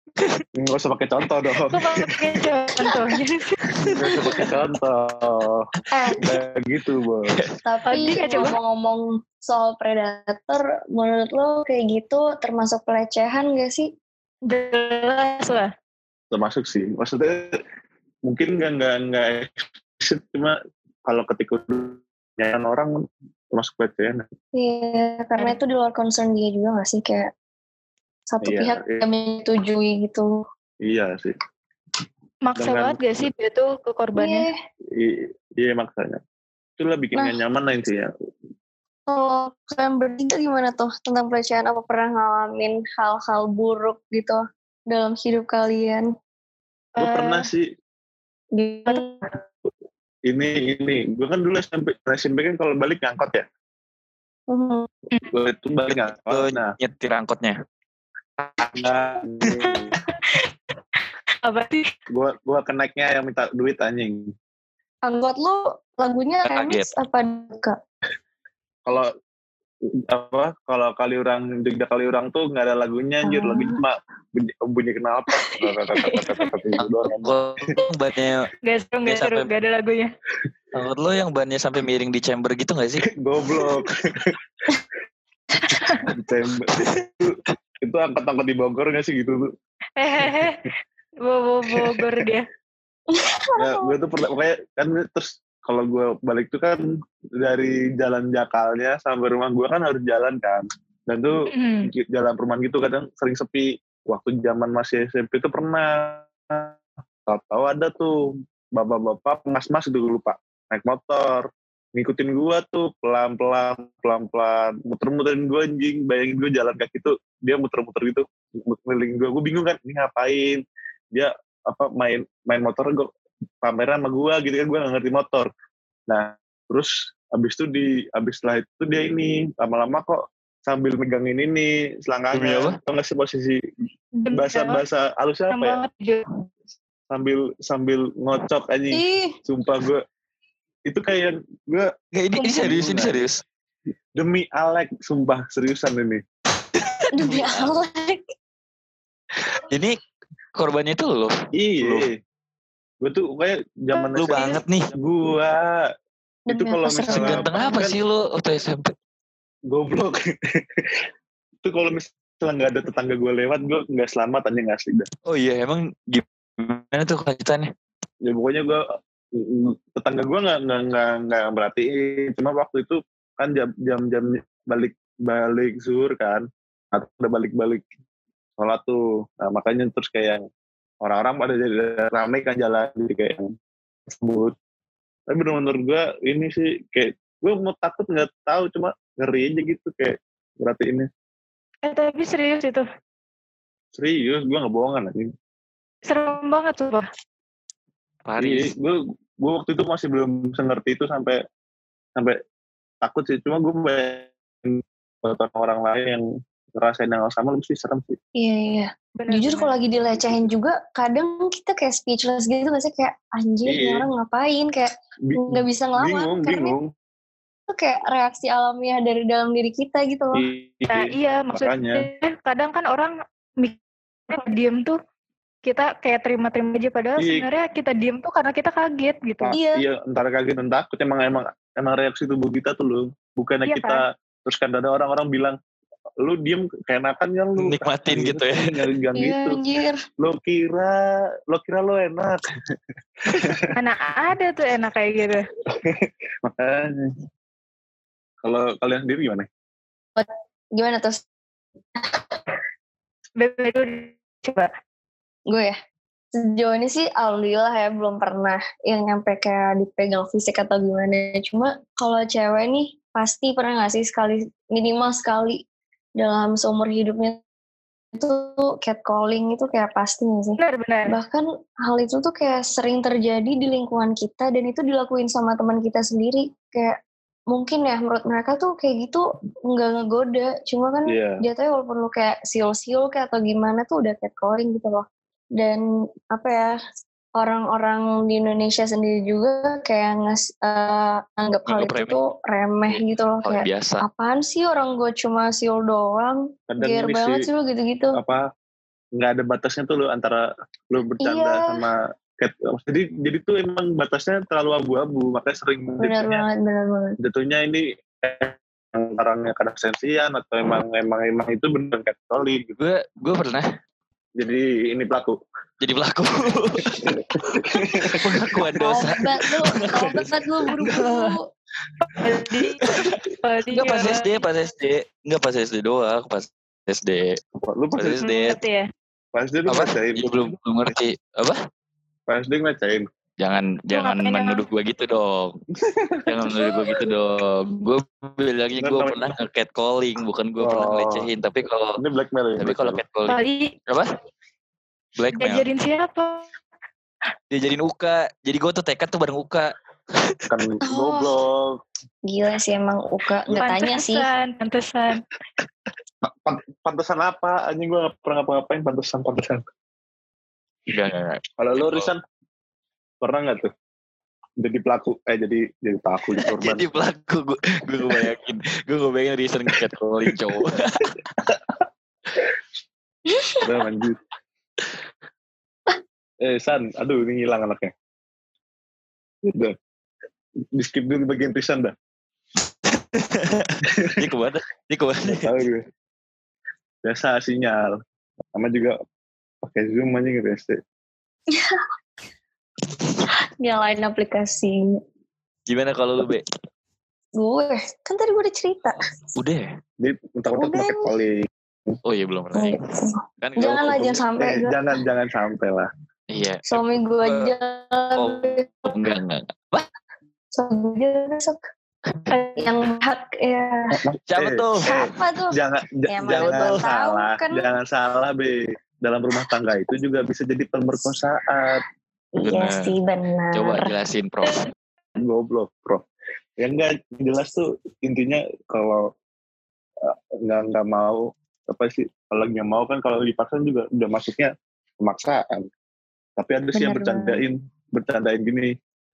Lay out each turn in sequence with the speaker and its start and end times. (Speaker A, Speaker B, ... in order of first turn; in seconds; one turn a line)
Speaker A: 0.6-2.4
Speaker B: 1.7-3.6
Speaker A: 3.8-5.7
Speaker C: 5.9-6.3
Speaker A: 6.2-7.4
Speaker C: 7.6-13.9
Speaker B: 7.9-8.6
Speaker B: 14.5-15.7
Speaker A: 16.3-17.6
Speaker A: 18.3-22.9
Speaker A: 23.5-24.3
Speaker C: 24.5-27.3
Speaker C: 28.3-30.3
Speaker A: 28.4-29.0
Speaker A: 30.8-31.4
Speaker B: 32.5-34.5
Speaker A: 32.6-33.3
Speaker C: 34.2-34.5
Speaker A: 35.0-36.2
Speaker A: 36.8-38.1
Speaker C: 39.1-46.1
Speaker B: 47.0-47.5
Speaker A: 47.0-47.7
Speaker C: 48.6-49.3
Speaker A: 50.3-53.5
Speaker C: 54.5-54.9
Speaker A: 55.3-56.7
Speaker D: 55.9-57.6
Speaker A: 58.4-60.0
Speaker B: 60.1-60.5
Speaker B: 61.4-61.9
Speaker A: 62.1-64.3
Speaker C: 65.1-67.8
Speaker D: 66.5-66.9
Speaker A: 70.1-77.7
Speaker C: 73.2-73.8
Speaker B: 76.1-76.5
Speaker D: 76.8-78.5
Speaker B: 78.7-80.1
Speaker D: 79.1-79.5
Speaker D: 80.7-83.0
Speaker A: 83.1-84.4
Speaker B: 85.8-86.1
Speaker A: 86.0-89.5
Speaker D: 86.8-87.0
Speaker B: 90.0-90.7
Speaker A: 90.1-90.5
Speaker B: 91.2-92.5
Speaker A: 91.7-92.3
Speaker C: 93.1-93.9
Speaker A: 93.6-96.8
Speaker A: 97.4-106.7
Speaker B: 101.5-101.9
Speaker A: 107.3-108.1
Speaker A: 108.8-120.6
Speaker A: 121.1-123.1
Speaker A: 123.6-125.5
Speaker A: 126.1-133.6
Speaker D: 132.3-132.8
Speaker B: 134.2-134.8
Speaker A: 134.3-135.8
Speaker B: 135.5-136.3
Speaker A: 137.1-140.0
Speaker C: 138.9-139.4
Speaker A: 140.9-141.9
Speaker D: 142.2-143.4
Speaker A: 142.6-143.3
Speaker A: 144.2-146.2
Speaker D: 146.8-147.7
Speaker C: 147.1-148.2
Speaker D: 149.6-149.9
Speaker D: 150.6-152.1
Speaker A: 151.6-152.1
Speaker A: 153.0-155.8
Speaker B: 154.0-154.6
Speaker D: 154.2-154.9
Speaker C: 156.5-157.5
Speaker A: 156.5-158.0
Speaker D: 157.1-158.9
Speaker A: 159.7-160.9
Speaker A: 161.6-165.1
Speaker D: 165.3-167.7
Speaker A: 168.3-168.8
Speaker A: 169.3-177.8
Speaker A: 178.6-180.4
Speaker A: 181.0-183.5
Speaker A: 184.1-184.6
Speaker A: 185.3-191.1
Speaker B: 191.8-192.8
Speaker A: 194.0-195.3
Speaker B: 196.1-197.1
Speaker D: 198.3-198.7
Speaker A: 198.4-201.4
Speaker A: 203.0-206.2
Speaker A: 206.8-208.2
Speaker C: 208.4-216.8
Speaker B: 209.2-209.8
Speaker A: 210.0-210.5
Speaker A: 213.7-214.1
Speaker A: 215.3-216.9
Speaker C: 217.7-220.4
Speaker A: 220.4-222.1
Speaker B: 220.9-223.8
Speaker B: 224.3-225.0
Speaker B: 225.7-229.5
Speaker A: 227.2-227.4
Speaker A: 229.4-235.6
Speaker C: 229.5-229.8
Speaker B: 233.7-234.0
Speaker A: 236.2-239.6
Speaker D: 237.6-238.8
Speaker C: 239.2-240.0
Speaker A: 240.2-242.4
Speaker A: 243.2-243.7
Speaker B: 243.8-245.5
Speaker A: 245.7-247.1
Speaker A: 248.4-249.5
Speaker C: 250.2-251.2
Speaker B: 253.4-254.7
Speaker C: 255.5-255.8
Speaker C: 256.3-265.6
Speaker C: 266.2-267.4
Speaker C: 268.1-277.0
Speaker B: 270.6-271.1
Speaker C: 277.5-285.1
Speaker A: 281.1-281.4
Speaker C: 285.6-286.7
Speaker C: 287.4-298.2
Speaker D: 291.7-292.2
Speaker D: 292.9-294.0
Speaker A: 296.7-297.5
Speaker A: 298.1-298.4
Speaker A: 299.2-306.4
Speaker C: 301.2-301.8
Speaker C: 306.0-307.2
Speaker A: 307.2-312.7
Speaker D: 312.8-313.7
Speaker A: 314.4-315.4
Speaker D: 315.8-321.4
Speaker A: 316.9-318.6
Speaker C: 318.8-321.5
Speaker B: 322.2-324.4
Speaker D: 322.8-327.4
Speaker A: 327.6-328.3
Speaker D: 328.0-328.6
Speaker B: 328.2-328.9
Speaker A: 329.4-331.0
Speaker D: 329.7-331.6
Speaker A: 332.3-333.1
Speaker D: 333.4-335.6
Speaker B: 333.9-334.6
Speaker A: 335.9-336.7
Speaker D: 336.3-342.0
Speaker A: 338.8-339.4
Speaker A: 340.6-341.3
Speaker A: 342.0-343.0
Speaker D: 342.6-344.1
Speaker B: 343.3-343.7
Speaker D: 345.2-345.7
Speaker B: 345.4-346.4
Speaker D: 347.5-350.4
Speaker A: 350.5-351.8
Speaker C: 350.9-351.3
Speaker C: 352.3-354.3
Speaker B: 353.6-355.2
Speaker A: 356.2-359.6
Speaker D: 360.9-362.1
Speaker A: 361.6-362.2
Speaker A: 363.2-363.7
Speaker A: 364.6-366.9
Speaker D: 366.4-371.2
Speaker C: 373.3-373.6
Speaker A: 373.6-374.2
Speaker A: 376.4-377.9
Speaker A: 379.4-379.8
Speaker A: 380.7-381.9
Speaker D: 382.9-385.6
Speaker A: 383.9-384.2
Speaker A: 385.3-385.9
Speaker A: 387.0-387.9
Speaker A: 388.6-389.0
Speaker A: 389.6-390.8
Speaker C: 391.5-391.8
Speaker C: 393.6-395.0
Speaker D: 395.7-396.4
Speaker C: 397.4-399.0
Speaker D: 399.4-399.7
Speaker A: 400.0-402.0
Speaker C: 400.5-401.1
Speaker D: 402.1-402.8
Speaker C: 402.5-404.8
Speaker D: 403.4-404.2
Speaker A: 403.6-405.9
Speaker D: 406.3-407.5
Speaker C: 406.7-408.9
Speaker D: 408.1-409.9
Speaker C: 410.6-411.6
Speaker C: 412.3-414.0
Speaker A: 413.9-421.8
Speaker D: 414.3-415.1
Speaker C: 414.8-415.6
Speaker C: 416.1-417.6
Speaker D: 416.3-416.9
Speaker C: 422.4-423.9
Speaker D: 422.4-422.9
Speaker D: 423.5-424.7
Speaker A: 425.2-426.1
Speaker A: 426.6-429.1
Speaker A: 430.0-435.7
Speaker A: 436.4-438.7
Speaker C: 436.7-437.4